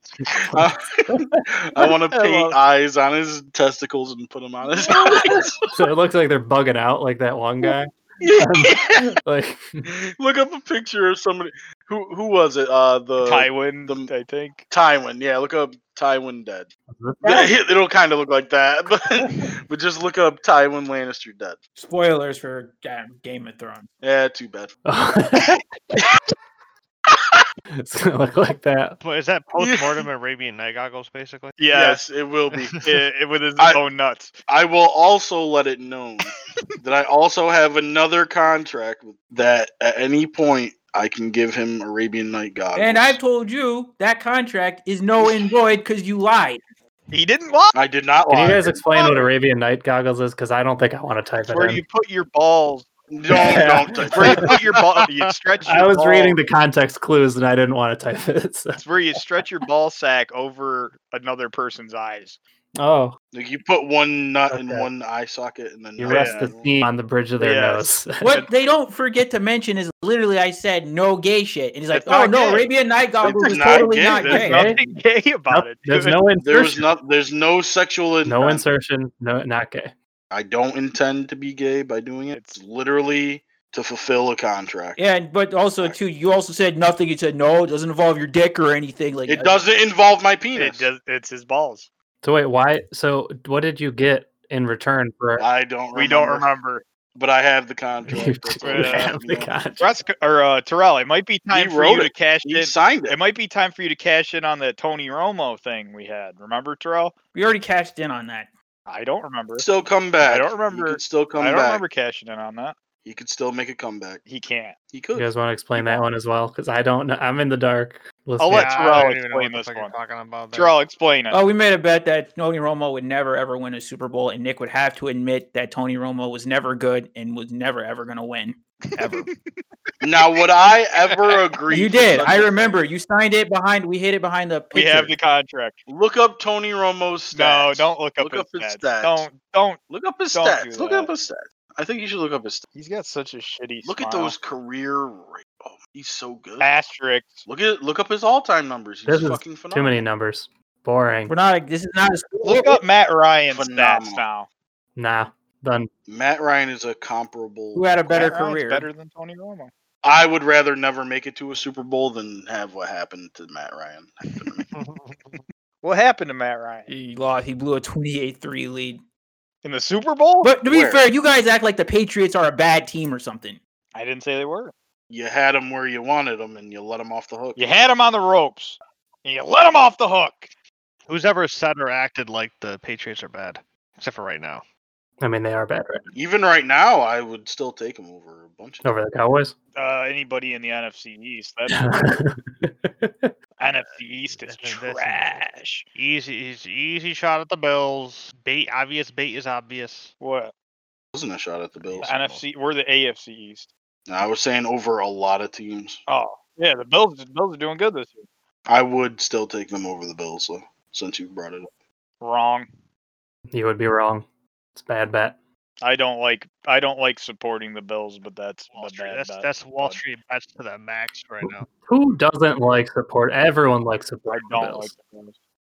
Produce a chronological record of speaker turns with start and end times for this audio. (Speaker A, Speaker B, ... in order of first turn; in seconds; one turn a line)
Speaker A: 0.2-1.4
Speaker B: 0.3-5.6
Speaker C: 2.1-2.5
Speaker A: 4.9-9.9
Speaker B: 8.2-9.2
Speaker B: 9.8-14.1
Speaker C: 13.2-14.6
Speaker B: 14.7-16.7
Speaker A: 16.9-17.5
Speaker B: 17.2-21.6
Speaker D: 21.8-23.9
Speaker B: 24.0-24.7
Speaker A: 24.9-25.6
Speaker A: 27.8-29.0
Speaker E: 29.0-31.6
Speaker B: 29.6-30.1
Speaker C: 31.6-32.0
Speaker B: 31.7-32.8
Speaker C: 32.8-34.3
Speaker B: 34.5-43.2
Speaker D: 42.8-46.6
Speaker C: 47.1-47.7
Speaker B: 47.7-49.1
Speaker A: 48.3-51.8
Speaker C: 51.4-52.9
Speaker B: 53.1-54.6
Speaker A: 53.3-54.5
Speaker C: 54.1-56.4
Speaker A: 55.6-58.8
Speaker C: 58.8-62.4
Speaker A: 62.8-63.2
Speaker B: 63.3-66.8
Speaker A: 64.5-64.9
Speaker A: 66.0-68.4
Speaker C: 66.0-66.4
Speaker C: 67.4-68.5
Speaker D: 68.2-74.7
Speaker C: 71.9-72.7
Speaker B: 73.2-74.5
Speaker C: 74.2-76.2
Speaker A: 74.3-74.8
Speaker A: 75.5-76.8
Speaker B: 76.4-78.7
Speaker A: 78.2-79.9
Speaker B: 80.3-85.0
Speaker C: 82.3-82.6
Speaker D: 85.0-89.6
Speaker B: 89.3-90.9
Speaker C: 90.5-91.9
Speaker A: 92.2-95.5
Speaker B: 95.4-96.5
Speaker C: 95.9-96.8
Speaker B: 97.2-99.5
Speaker A: 98.1-99.9
Speaker C: 98.6-99.1
Speaker C: 99.8-107.1
Speaker B: 101.5-103.2
Speaker D: 107.3-108.5
Speaker C: 108.9-109.7
Speaker B: 109.6-111.8
Speaker C: 110.2-112.8
Speaker B: 113.0-114.2
Speaker C: 114.2-114.8
Speaker B: 114.9-116.0
Speaker A: 115.1-118.8
Speaker C: 118.4-119.9
Speaker E: 118.5-120.8
Speaker C: 120.5-121.4
Speaker D: 121.3-129.3
Speaker B: 130.0-132.8
Speaker C: 131.0-131.4
Speaker D: 131.7-135.1
Speaker C: 134.7-135.8
Speaker B: 135.9-139.3
Speaker C: 137.3-139.8
Speaker B: 139.9-142.6
Speaker C: 140.3-141.1
Speaker C: 142.7-144.3
Speaker B: 143.8-146.7
Speaker C: 146.6-147.4
Speaker B: 147.4-150.0
Speaker A: 149.1-151.3
Speaker D: 151.3-152.8
Speaker C: 152.4-154.5
Speaker B: 153.5-154.2
Speaker A: 154.9-155.9
Speaker B: 156.1-157.9
Speaker D: 157.7-158.9
Speaker C: 158.1-159.7
Speaker B: 160.0-164.7
Speaker E: 164.7-165.4
Speaker C: 165.8-166.9
Speaker D: 166.9-169.0
Speaker C: 169.6-170.5
Speaker D: 170.4-173.6
Speaker B: 170.7-171.1
Speaker C: 173.9-174.7
Speaker B: 175.1-177.6
Speaker C: 177.6-180.5
Speaker E: 181.1-184.6
Speaker A: 185.2-186.1
Speaker B: 186.1-188.9
Speaker A: 188.8-189.5
Speaker C: 189.7-192.0
Speaker A: 191.7-193.3
Speaker C: 193.6-195.8
Speaker E: 194.3-200.1
Speaker C: 200.2-200.5
Speaker B: 201.1-202.1
Speaker E: 201.8-202.4
Speaker C: 202.0-203.7
Speaker B: 204.1-206.0
Speaker C: 206.1-208.3
Speaker B: 208.7-211.7
Speaker C: 212.2-212.7
Speaker A: 213.5-215.4
Speaker C: 215.8-220.0
Speaker E: 218.7-221.7
Speaker A: 221.8-224.9
Speaker C: 224.3-225.3